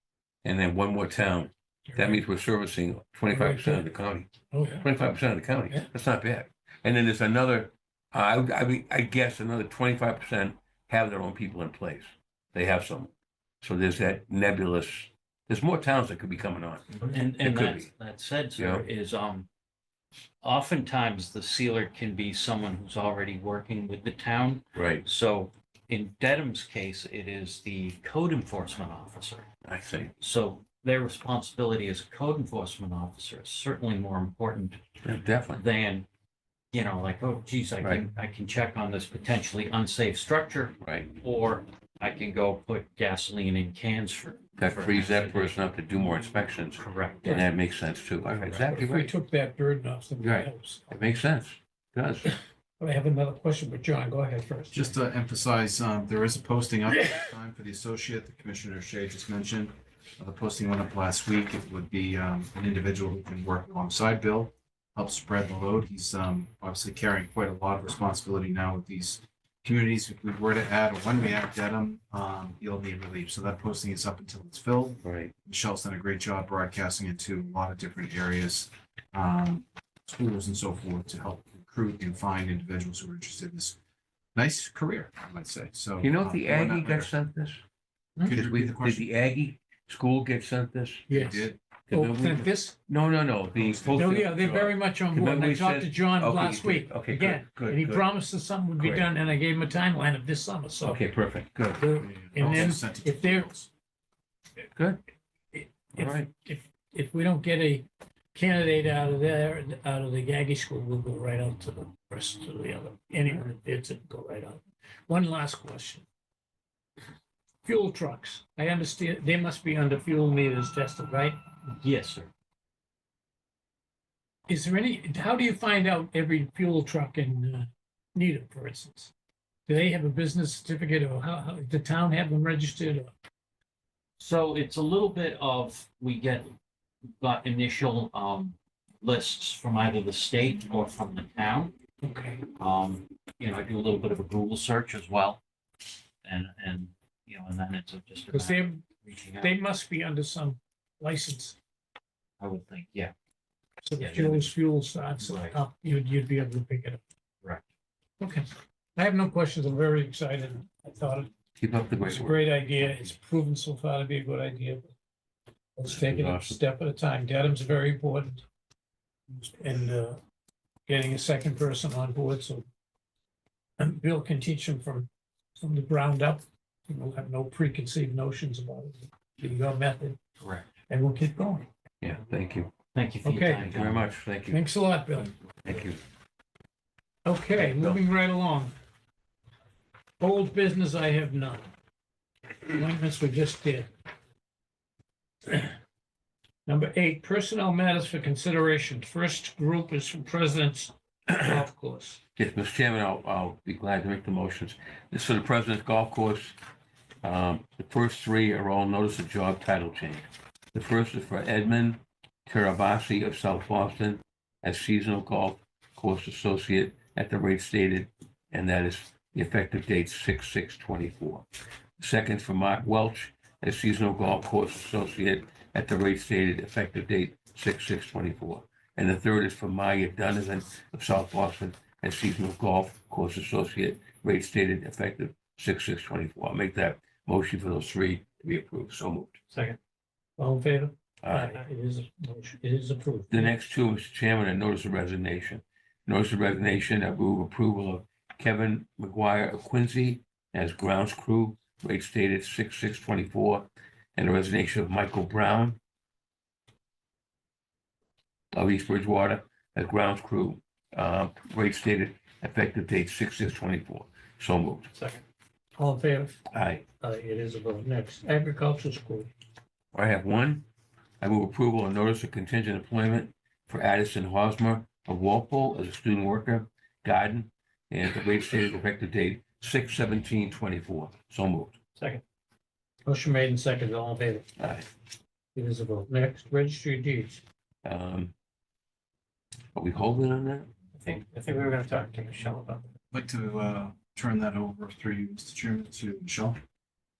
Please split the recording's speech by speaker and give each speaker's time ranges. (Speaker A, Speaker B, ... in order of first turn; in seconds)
Speaker A: 0.4-17.9, 18.6-18.9, 24.7-25.0, 29.6-30.1, 35.0-35.6, 37.8-38.0, 40.8-41.1, 44.6-49.1, 50.2-52.3, 75.0-75.3, 86.0-87.6, 88.3-91.1, 91.9-98.0, 98.8-99.1, 100.8-101.8, 104.7-105.0, 106.0-106.3, 161.6-162.5, 165.8-166.6, 182.0-182.7, 183.6-184.6, 185.6-186.0, 187.6-188.0, 202.3-206.5, 207.2-221.4, 222.0-239.4, 241.2-241.6, 243.3-255.8, 258.5-264.9, 266.5-266.8, 269.9-270.7, 271.2-281.8, 284.6-284.9, 287.8-288.3, 289.7-290.7
Speaker B: 1.9-2.2, 3.3-3.8, 4.5-4.9, 48.7-51.0, 52.2-54.9, 91.1-92.8, 93.9-101.0, 101.8-103.5, 105.5-116.0, 117.6-121.4, 124.5-129.1, 129.7-133.1, 142.0-142.4, 148.3-148.8, 149.4-151.6, 153.8-157.0, 158.2-161.3, 162.0-164.9, 165.8-168.4, 169.3-170.2, 170.9-172.7, 173.8-180.2, 180.9-181.7, 183.2-183.7, 184.5-185.3, 187.2-188.7, 190.2-191.7, 192.7-193.9, 195.5-195.7, 196.7-202.2, 240.4-243.5, 264.9-265.2, 265.8-266.4, 267.0-269.3, 282.0-282.2, 283.1-284.5, 285.5-287.4, 291.0-292.9
Speaker C: 16.9-19.5, 20.4-29.5, 30.2-34.8, 35.5-36.1, 36.7-45.6, 46.8-47.3, 48.3-48.6, 121.8-122.3, 134.2-136.5, 137.1-141.8, 142.5-145.4, 146.2-149.6, 152.4-153.1, 154.0-154.5, 155.2-155.6, 180.4-180.7, 182.9-184.1
Speaker D: 54.7-83.8, 84.3-87.1, 88.2-89.0, 91.1-91.6, 93.6-93.9, 102.0-103.7, 293.1-296.6